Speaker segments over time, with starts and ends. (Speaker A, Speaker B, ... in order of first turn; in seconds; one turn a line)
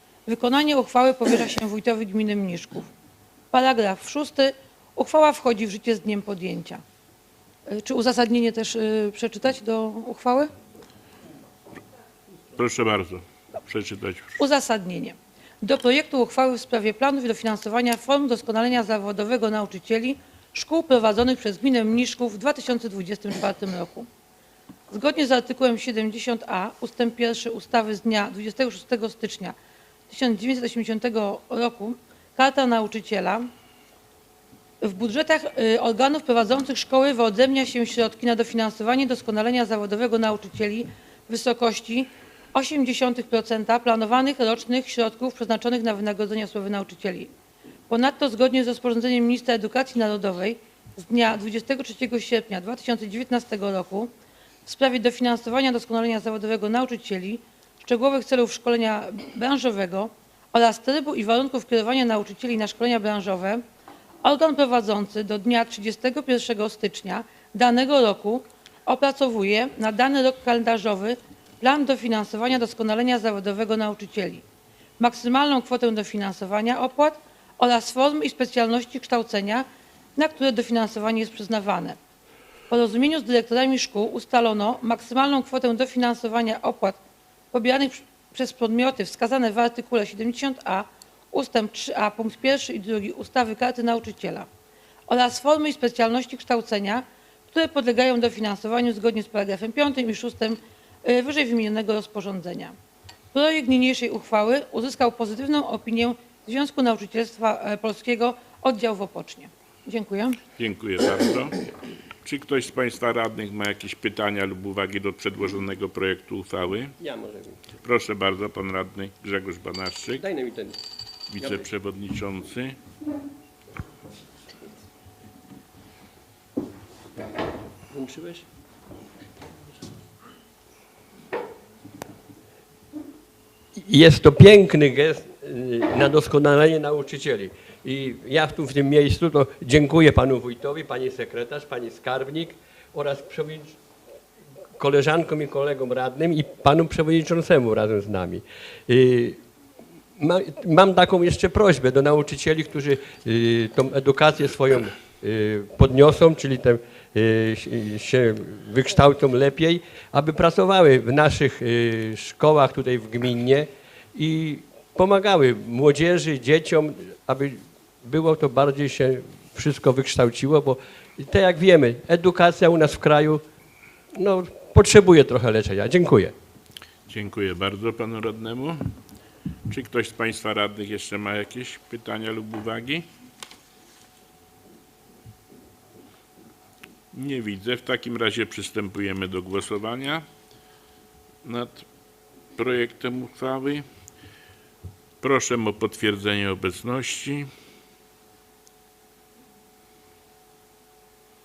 Speaker A: 0.3-2.9
Speaker A: 3.5-6.8
Speaker A: 7.7-10.5
Speaker B: 12.6-14.3
Speaker A: 14.4-24.1
Speaker A: 24.9-29.6
Speaker A: 30.1-33.5
Speaker A: 34.8-47.3
Speaker A: 47.9-54.1
Speaker A: 54.6-63.6
Speaker A: 64.2-74.4
Speaker A: 75.0-82.0
Speaker A: 82.7-87.0
Speaker A: 87.5-94.5
Speaker A: 95.1-102.8
Speaker A: 103.3-110.4
Speaker B: 110.6-111.6
Speaker B: 112.2-116.9
Speaker C: 117.0-117.6
Speaker B: 117.8-120.2
Speaker C: 120.2-120.8
Speaker B: 121.3-122.8
Speaker C: 127.9-128.4
Speaker C: 133.8-143.8
Speaker C: 144.8-149.4
Speaker C: 150.2-173.4
Speaker C: 174.2-176.3
Speaker B: 177.1-178.9
Speaker B: 179.7-183.1
Speaker B: 187.1-190.2
Speaker B: 191.4-191.9
Speaker B: 192.6-193.8
Speaker B: 195.2-197.5